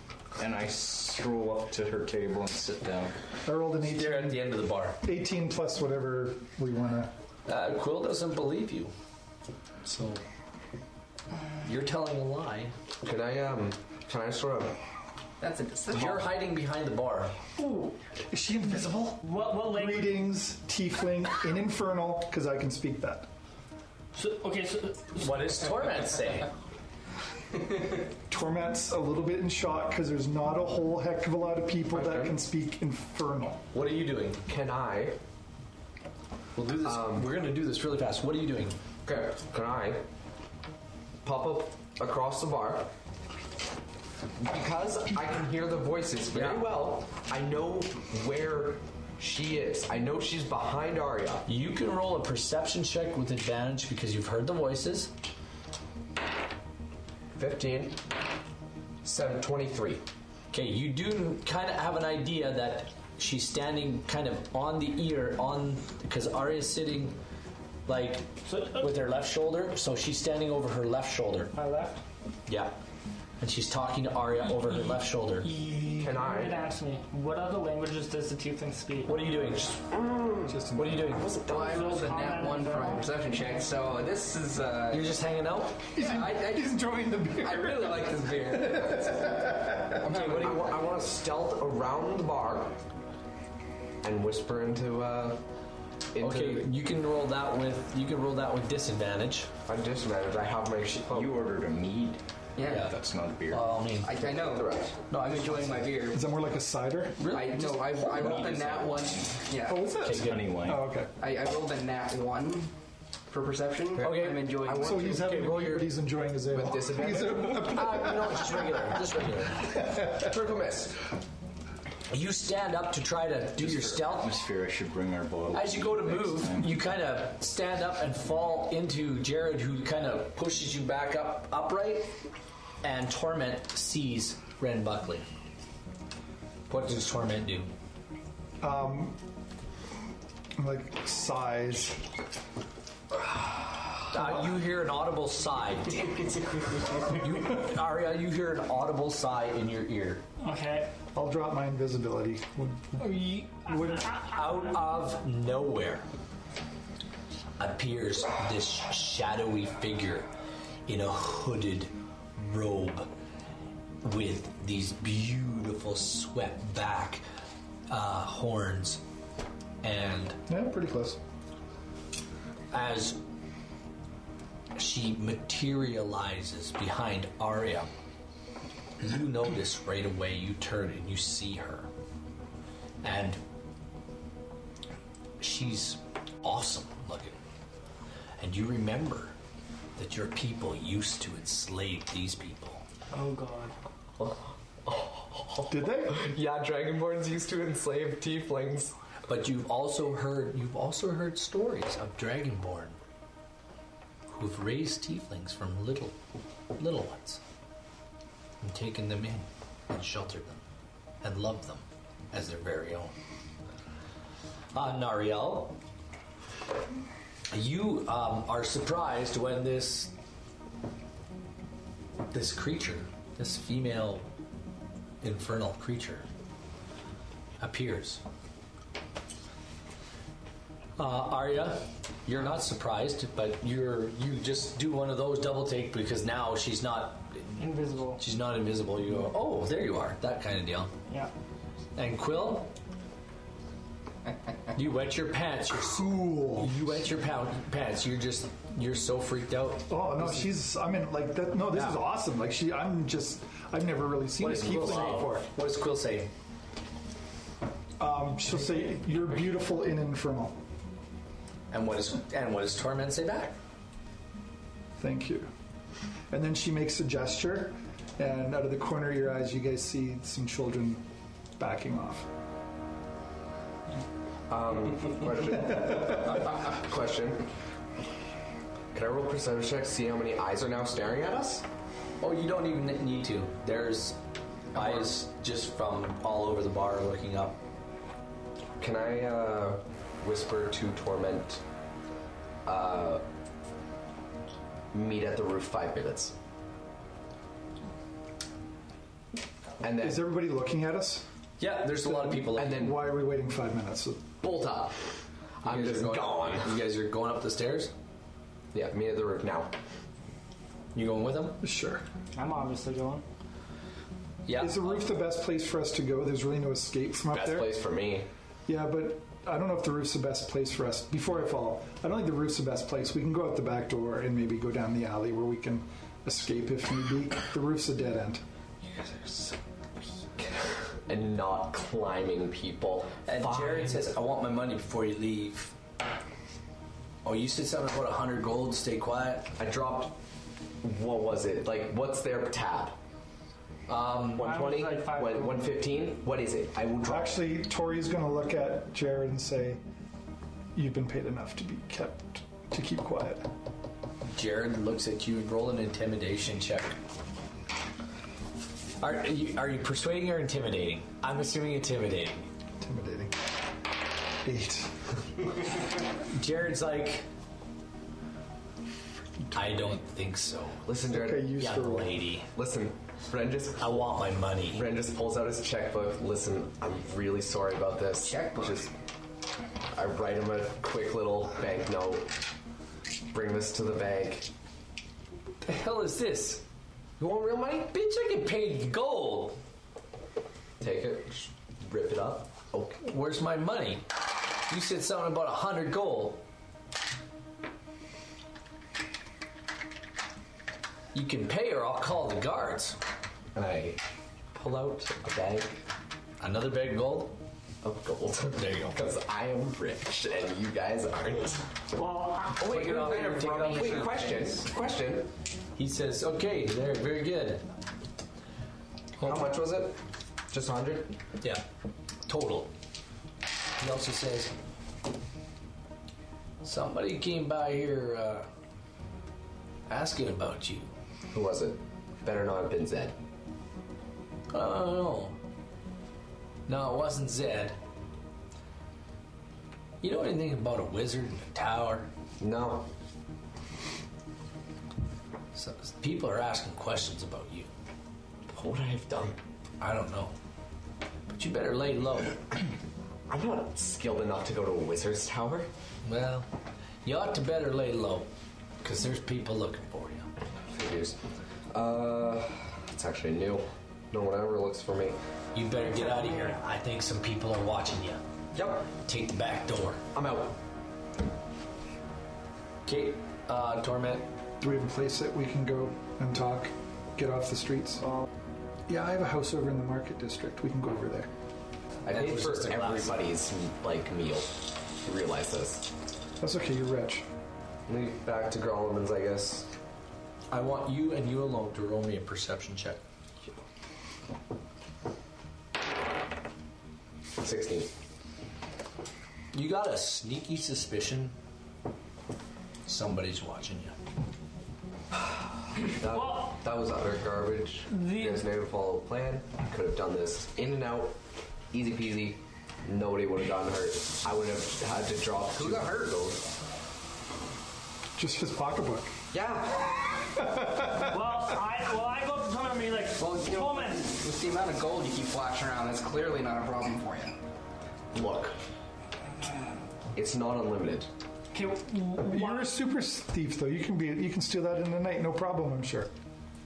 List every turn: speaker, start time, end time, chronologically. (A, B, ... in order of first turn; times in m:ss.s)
0:00.3-0:03.2 A
0:03.4-0:07.1 B
0:03.8-0:05.0 C
0:07.5-0:08.9 C
0:09.8-0:10.2 C
0:11.6-0:12.7 C
0:13.0-0:14.8 D
0:15.4-0:16.2 E
0:15.9-0:17.4 C
0:15.9-0:16.2 D
0:17.6-0:23.3 B
0:19.2-0:20.2 F
0:24.1-0:25.5 F
0:25.2-0:26.5 C
0:28.3-0:33.6 B
0:31.9-0:32.4 D
0:33.7-0:34.4 C
0:34.5-0:35.2 D
0:36.6-0:38.8 C
0:36.8-0:37.3 D
0:39.0-0:40.0 D
0:41.2-0:42.9 D
0:44.4-0:51.5 D
0:46.3-0:46.6 C
0:51.4-0:55.1 C
0:57.3-0:58.0 D
0:59.0-1:00.0 D
1:00.5-1:07.2 C
1:07.9-1:11.5 C
1:08.5-1:08.9 F
1:11.5-1:12.0 F
1:12.5-1:12.8 C
1:13.4-1:15.5 C
1:15.4-1:19.1 F
1:16.0-1:16.6 D
1:19.0-1:19.9 C
1:19.9-1:20.6 D
1:20.4-1:21.2 B
1:20.7-1:21.4 C
1:21.1-1:22.0 D
1:21.4-1:25.2 E
1:21.5-1:23.1 F
1:24.9-1:25.8 C
1:25.9-1:30.0 B
1:26.0-1:26.8 E
1:27.4-1:30.8 E
1:30.1-1:30.6 C
1:30.1-1:32.8 D
1:34.0-1:35.4 D
1:36.1-1:36.7 D
1:36.2-1:39.5 C
1:39.6-1:41.4 D
1:41.0-1:42.2 A
1:42.6-1:42.9 E
1:42.6-1:43.0 C
1:42.7-1:43.7 A
1:43.5-1:44.2 C
1:44.0-1:46.2 E
1:44.1-1:45.0 D
1:45.1-1:45.9 C
1:46.1-1:47.3 B
1:47.2-1:48.8 C
1:47.3-1:49.8 E
1:48.2-1:51.0 A
1:49.7-1:51.1 B
1:50.0-1:50.4 C
1:51.2-1:52.7 E
1:53.3-1:55.3 E
1:54.0-1:55.6 D
1:54.0-1:55.9 C
1:54.8-1:58.9 B
1:56.5-1:58.1 D
1:57.6-1:59.7 C
1:59.8-2:00.2 B
2:00.0-2:01.0 D
2:02.1-2:04.3 C
2:03.6-2:06.8 A
2:05.5-2:12.2 C
2:12.8-2:15.2 C
2:16.7-2:17.7 C
2:18.6-2:19.2 B
2:20.6-2:22.0 B
2:24.1-2:26.3 C
2:27.0-2:30.2 C
2:30.4-2:30.9 F
2:31.1-2:34.1 B
2:33.0-2:34.7 F
2:34.3-2:36.1 C
2:37.6-2:40.3 C
2:40.9-2:43.1 C
2:44.0-2:47.2 C
2:47.9-2:49.0 C
2:49.8-2:50.4 C
2:50.5-2:51.2 B
2:52.7-2:53.2 C
2:54.7-2:57.9 C
2:59.0-3:01.9 C
3:03.0-3:03.4 C
3:05.4-3:07.4 C
3:08.4-3:09.3 C
3:10.0-3:12.8 C
3:13.1-3:13.7 F
3:14.2-3:19.0 D
3:15.7-3:16.2 B
3:19.3-3:23.0 C
3:24.3-3:26.1 C
3:26.8-3:27.4 C
3:28.6-3:30.6 C
3:31.2-3:33.1 C
3:34.7-3:35.8 C
3:37.5-3:40.1 C
3:42.3-3:44.3 C
3:45.2-3:46.3 C
3:47.6-3:48.2 C
3:51.0-3:57.6 C
3:57.6-3:58.2 F
3:58.2-4:00.9 C
4:02.0-4:02.7 C
4:04.7-4:10.5 C
4:05.8-4:06.9 B
4:09.9-4:15.5 B
4:11.7-4:12.0 C
4:14.4-4:16.3 C
4:18.0-4:20.6 B
4:21.7-4:23.6 C
4:25.0-4:25.5 B
4:26.3-4:31.0 B
4:31.6-4:32.3 B
4:34.5-4:37.4 D
4:38.9-4:41.6 D
4:42.2-4:44.2 C
4:44.7-4:47.6 C
4:48.8-4:51.6 D
4:52.6-4:53.2 D
4:54.9-4:56.4 D
4:59.8-5:00.2 D
5:00.0-5:01.2 B
5:01.6-5:02.9 C
5:02.0-5:04.3 B
5:02.6-5:03.0 D
5:04.4-5:06.8 D
5:05.6-5:07.9 C
5:08.7-5:09.7 D
5:10.9-5:11.6 C
5:11.6-5:12.0 B
5:12.3-5:13.2 F
5:14.4-5:15.2 C
5:14.6-5:17.7 B
5:17.3-5:18.3 D
5:18.7-5:28.4 B
5:28.8-5:29.6 C
5:30.9-5:34.1 D
5:33.2-5:35.7 C
5:37.2-5:39.5 C
5:39.6-5:40.2 D
5:40.8-5:43.0 D
5:43.9-5:44.5 C
5:44.4-5:47.3 D
5:44.4-5:45.8 F
5:47.0-5:49.8 B
5:50.7-5:53.5 B
5:54.3-5:57.0 C
5:59.0-6:02.5 C
6:02.8-6:03.3 B
6:04.4-6:05.0 B
6:06.3-6:07.2 C
6:09.5-6:10.8 C
6:10.8-6:11.5 D
6:11.1-6:12.2 B
6:11.6-6:12.5 C
6:12.5-6:18.9 D
6:13.8-6:14.8 C
6:18.2-6:18.8 E
6:19.9-6:22.3 D
6:23.3-6:24.5 D
6:25.6-6:26.6 C
6:27.2-6:27.9 D
6:27.9-6:29.6 C
6:30.8-6:33.0 D
6:33.0-6:34.0 C
6:34.7-6:36.4 C
6:41.1-6:43.0 C
6:43.5-6:44.0 D
6:44.6-6:45.8 D
6:44.6-6:45.0 C
6:46.4-6:47.4 C
6:47.8-6:51.7 D
6:48.5-6:49.0 C
6:52.0-6:52.6 F
6:52.5-6:54.2 C
6:52.6-6:55.3 D
6:53.1-6:54.4 E
6:55.7-6:57.6 C
6:59.2-7:00.0 D
7:00.5-7:01.2 D
7:02.3-7:02.7 C
7:03.8-7:04.5 C
7:06.6-7:08.5 C
7:09.9-7:10.9 C
7:11.3-7:13.2 D
7:14.5-7:15.4 C
7:16.7-7:17.8 C
7:20.0-7:22.1 C
7:22.4-7:22.9 D
7:25.5-7:27.7 C
7:28.5-7:29.4 D
7:29.8-7:30.3 C
7:31.3-7:32.4 C
7:33.3-7:35.7 D
7:36.0-7:36.5 C
7:37.0-7:38.3 C
7:38.8-7:40.3 C
7:40.7-7:41.2 D
7:41.7-7:45.2 D
7:45.5-7:48.2 C
7:48.5-7:48.9 D
7:49.0-7:50.0 C
7:50.1-7:50.6 D
7:52.8-7:54.3 C
7:54.6-7:58.0 B
7:58.9-8:01.3 B
8:02.0-8:05.9 D
8:02.1-8:03.2 C
8:06.4-8:07.2 B
8:07.9-8:09.7 D
8:10.5-8:13.0 C
8:17.4-8:17.9 D
8:19.5-8:21.3 C
8:22.8-8:24.0 C
8:25.8-8:31.2 D
8:26.1-8:26.6 F
8:27.9-8:28.4 F
8:31.7-8:36.5 D
8:35.5-8:36.1 E
8:38.2-8:39.1 B
8:39.3-8:39.9 D
8:40.4-8:41.2 B
8:41.0-8:44.1 F
8:43.2-8:47.4 E
8:48.1-8:48.6 D
8:50.1-8:51.1 D
8:51.5-8:52.7 F
8:52.2-8:56.1 B